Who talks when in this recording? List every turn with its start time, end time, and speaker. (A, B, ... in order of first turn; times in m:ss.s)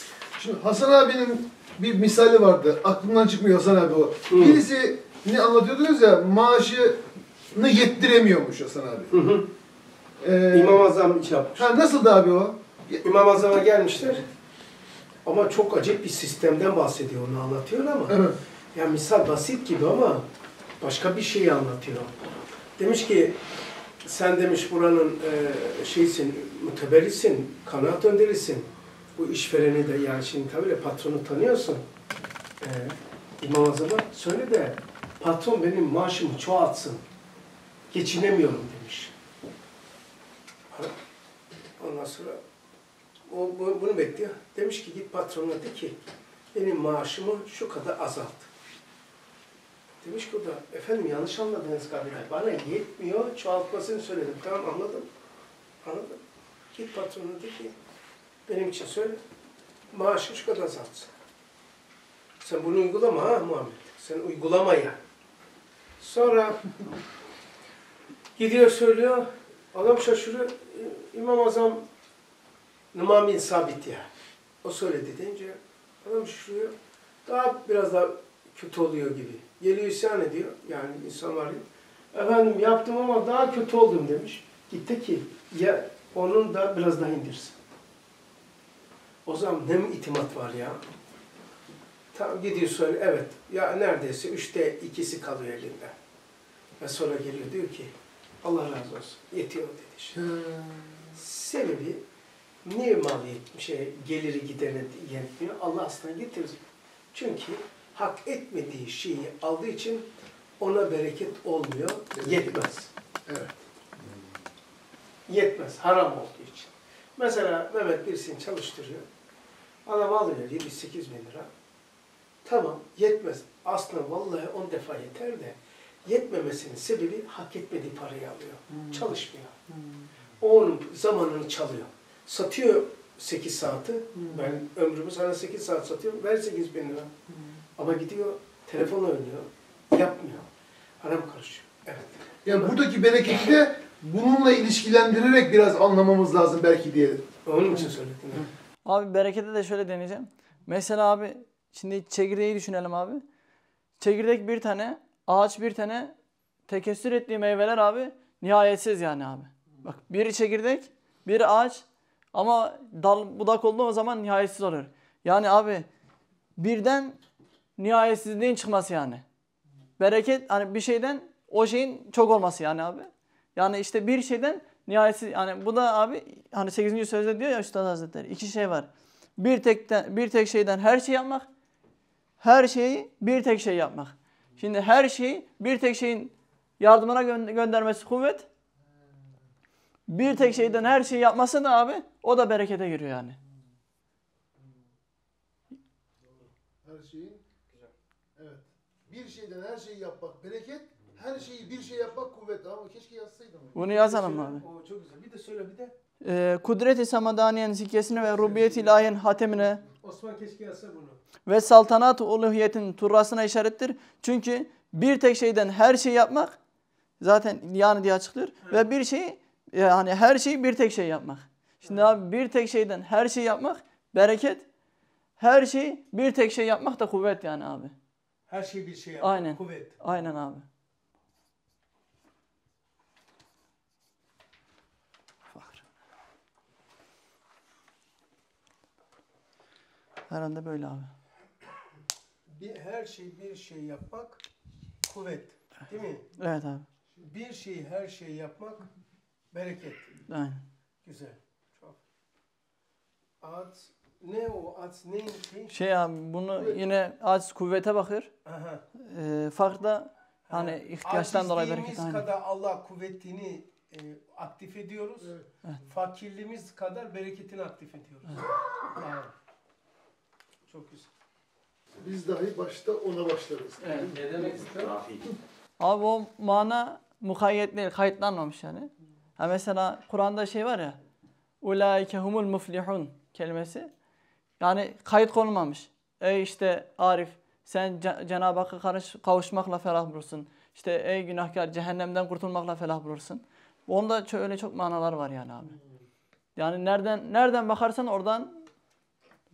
0:00.4-0:09.2 A
0:04.3-0:04.6 B
0:09.1-0:09.5 B
0:10.2-0:10.8 A
0:10.5-0:11.7 B
0:11.6-0:13.0 A
0:13.0-0:14.3 B
0:15.2-0:18.2 B
0:18.1-0:18.3 A
0:18.7-0:20.3 B
0:20.8-0:22.1 B
0:22.8-0:23.4 B
0:24.0-0:31.8 B
0:32.6-0:37.0 B
0:37.9-0:39.1 B
0:41.8-0:42.4 B
0:43.3-0:46.0 B
0:46.5-0:48.5 B
0:50.0-0:55.1 B
0:55.8-0:56.2 B
0:56.7-0:57.8 B
0:58.5-0:59.2 B
0:59.9-1:01.1 B
1:02.4-1:05.0 B
1:06.0-1:06.8 B
1:08.4-1:11.8 B
1:12.9-1:14.1 B
1:14.6-1:16.7 B
1:17.2-1:27.6 B
1:29.2-1:30.8 B
1:32.1-1:35.9 B
1:36.8-1:40.2 B
1:40.1-1:41.1 A
1:41.1-1:42.0 B
1:42.6-1:50.1 B
1:50.6-1:52.9 B
1:52.2-1:52.5 A
1:53.3-1:54.2 A
1:55.3-1:59.0 B
1:59.8-2:01.5 B
2:02.4-2:09.6 B
2:10.4-2:17.1 B
2:14.2-2:14.5 A
2:17.8-2:20.5 B
2:21.0-2:22.8 B
2:22.4-2:27.3 A
2:27.4-2:28.5 B
2:28.8-2:33.2 C
2:34.0-2:36.1 C
2:36.7-2:45.9 C
2:46.6-2:47.2 C
2:47.8-2:49.2 C
2:50.0-3:01.5 C
3:02.4-3:08.5 C
3:10.1-3:13.4 C
3:16.3-3:17.4 A
3:18.4-3:23.8 A
3:23.7-3:24.6 C
3:23.8-3:25.9 B
3:26.2-3:29.8 C
3:28.3-3:28.8 B
3:29.9-3:31.2 B
3:31.5-3:36.6 C
3:37.2-3:44.6 C
3:45.4-3:47.9 C
3:48.5-3:50.0 B
3:49.2-3:50.6 C
3:55.5-3:55.8 C
4:00.3-4:01.1 C
4:02.5-4:04.4 B
4:05.0-4:06.3 B
4:06.4-4:06.9 C
4:07.2-4:08.9 B
4:09.5-4:10.1 B
4:10.3-4:10.6 C
4:11.0-4:12.0 B
4:13.4-4:15.8 B
4:15.7-4:18.3 C
4:18.4-4:18.8 B
4:19.0-4:22.3 C
4:20.5-4:25.3 B
4:25.8-4:29.3 B
4:30.7-4:31.1 B
4:32.0-4:34.7 A
4:33.8-4:34.2 C
4:34.3-4:35.0 B
4:35.8-4:41.0 C
4:41.6-4:43.9 C
4:44.6-4:55.8 C
4:56.6-4:58.6 C